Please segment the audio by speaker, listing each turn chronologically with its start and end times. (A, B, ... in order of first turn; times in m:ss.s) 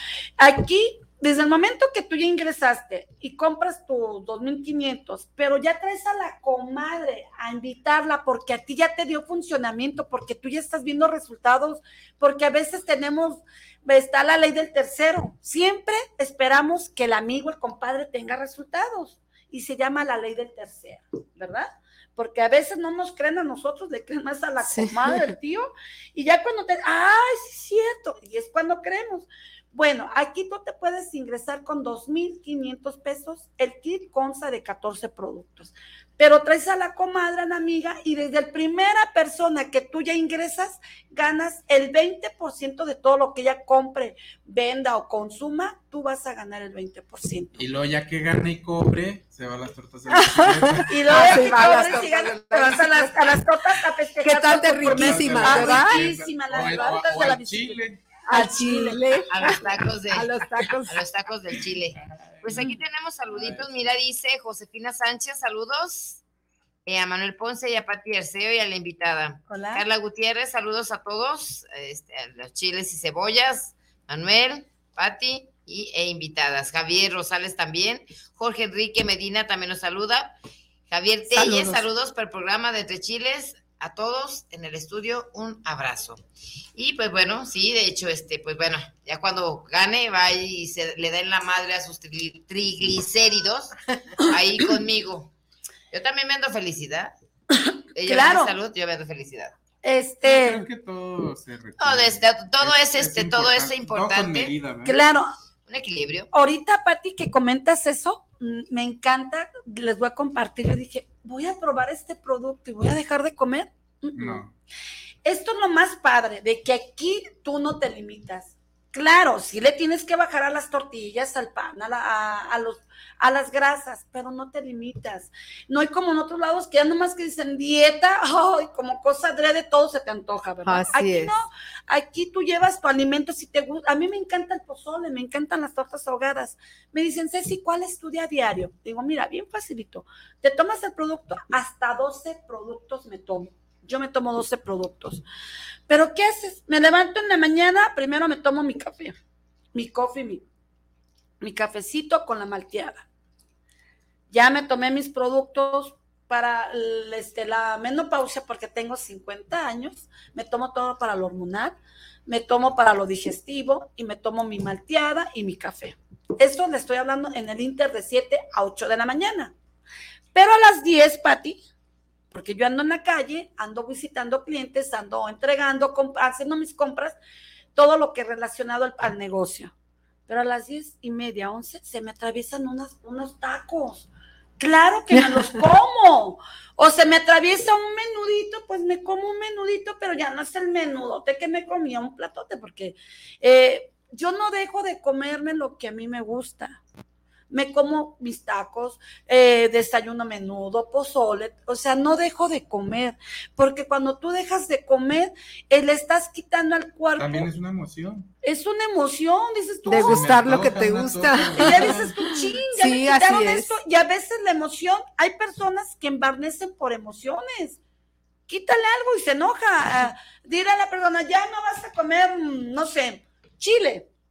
0:00.4-0:47.6 A
0:24.6-0:25.4 B
0:47.6-0:51.8 C
0:50.1-0:53.4 B
0:50.9-0:59.0 A
0:54.2-0:56.1 B
0:54.8-0:58.0 C
0:58.3-1:01.1 B
0:59.3-1:00.3 D
1:00.9-1:06.2 D
1:02.0-1:02.8 C
1:03.3-1:04.0 C
1:06.9-1:20.4 D
1:09.5-1:09.8 A
1:20.9-1:26.2 D
1:21.3-1:21.8 B
1:26.8-1:35.3 D
1:35.9-1:37.1 D
1:37.5-1:38.5 A
1:38.0-1:39.6 D
1:39.8-1:40.6 A
1:40.2-1:45.0 C
1:41.8-1:44.5 D
1:44.8-1:45.3 A
1:45.7-1:46.3 D
1:46.3-1:54.4 A
1:54.2-1:54.5 C
1:55.2-2:25.2 A
2:10.6-2:11.4 B
2:25.9-2:29.2 A
2:29.7-2:30.4 A
2:31.4-2:33.0 A
2:34.3-2:41.8 A
2:42.3-2:49.5 A
2:50.3-2:51.6 A
2:52.3-2:57.2 A
2:57.8-2:59.7 A
3:00.3-3:04.1 A
3:04.6-3:16.8 A
3:05.1-3:05.4 B
3:17.5-3:27.5 A
3:27.2-3:28.3 C
3:28.4-3:30.4 A
3:29.9-3:33.8 B
3:29.9-3:32.3 C
3:31.5-3:37.8 A
3:38.5-3:44.1 A